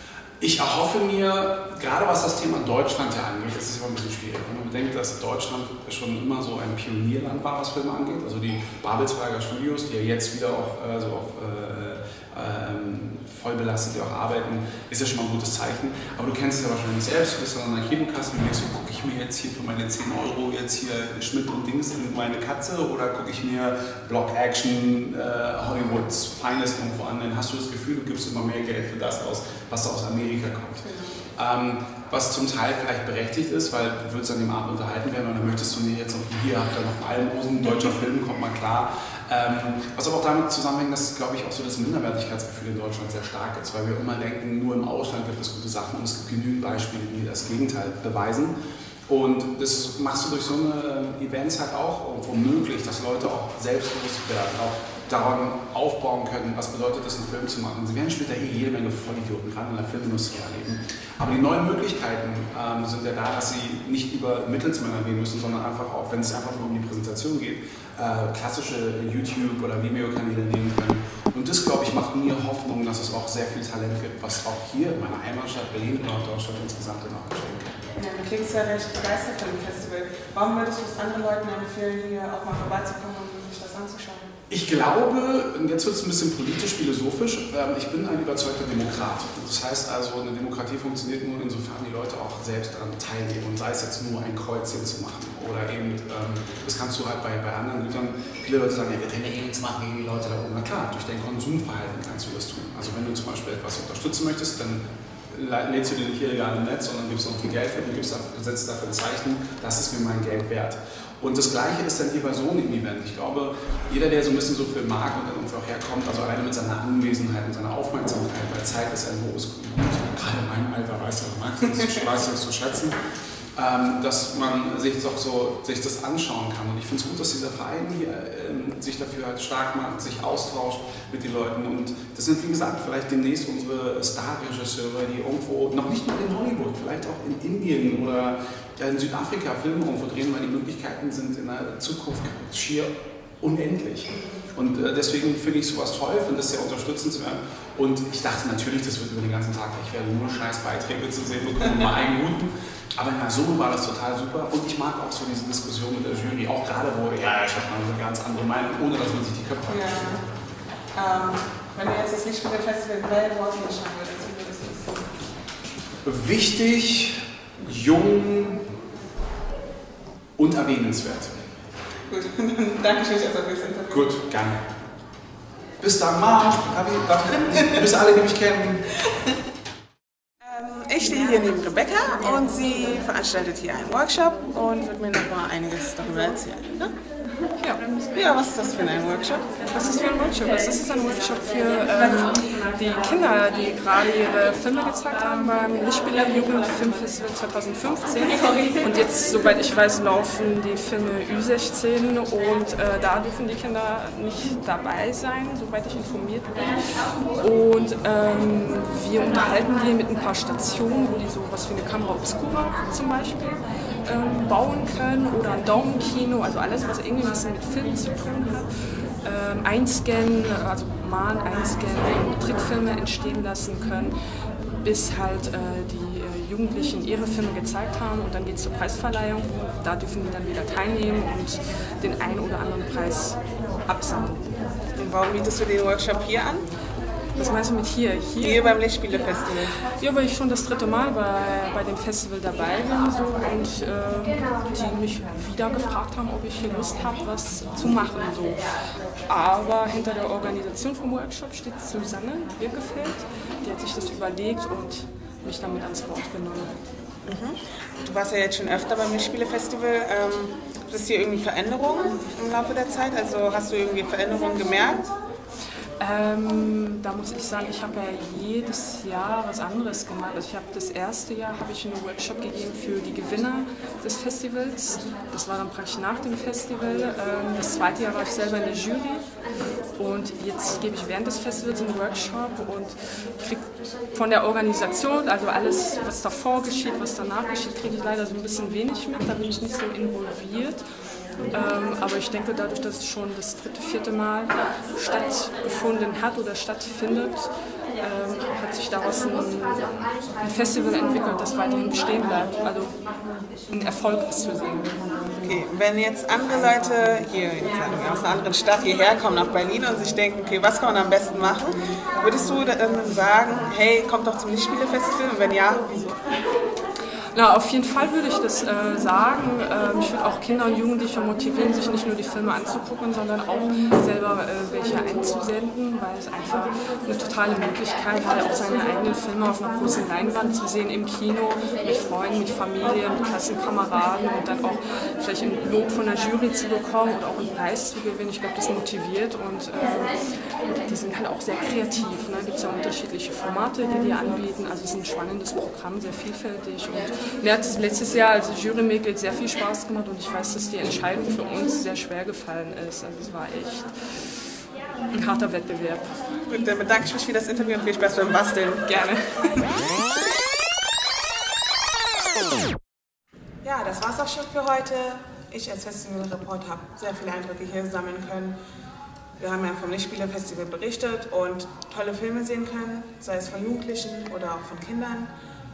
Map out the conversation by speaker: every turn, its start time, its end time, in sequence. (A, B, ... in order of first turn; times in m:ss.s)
0:00.4-0:30.8 A
0:30.8-0:31.2 B
0:31.4-0:48.5 A
0:49.1-1:17.8 A
1:18.0-1:24.3 B
1:24.5-2:03.0 A
2:03.6-2:40.2 A
2:24.1-2:24.4 B
2:31.6-2:31.9 B
2:39.7-2:40.2 B
2:41.0-2:45.1 B
2:46.0-2:48.7 A
2:50.4-2:51.4 A
2:52.1-2:54.1 B
2:53.9-2:54.6 A
2:55.8-2:58.9 A
3:00.4-3:06.9 B
3:07.6-3:07.9 C
3:08.1-3:09.7 B
3:09.7-3:26.7 C
3:27.4-3:38.7 C
3:39.2-3:44.2 C
3:44.8-3:54.5 C
3:55.0-3:56.7 B
3:57.4-3:58.8 C
3:58.4-3:59.7 B
4:00.0-4:08.6 C
4:09.3-4:16.7 C
4:17.3-4:25.1 B
4:26.0-4:39.2 C
4:40.0-4:50.8 C
4:51.5-5:03.0 C
5:03.7-5:05.0 C
5:05.4-5:16.2 B
5:17.3-5:40.2 C
5:40.8-5:53.9 C
5:55.1-5:56.2 C
5:56.5-5:58.9 B
5:58.9-5:59.6 C
6:03.6-6:08.6 B
6:09.4-6:15.3 B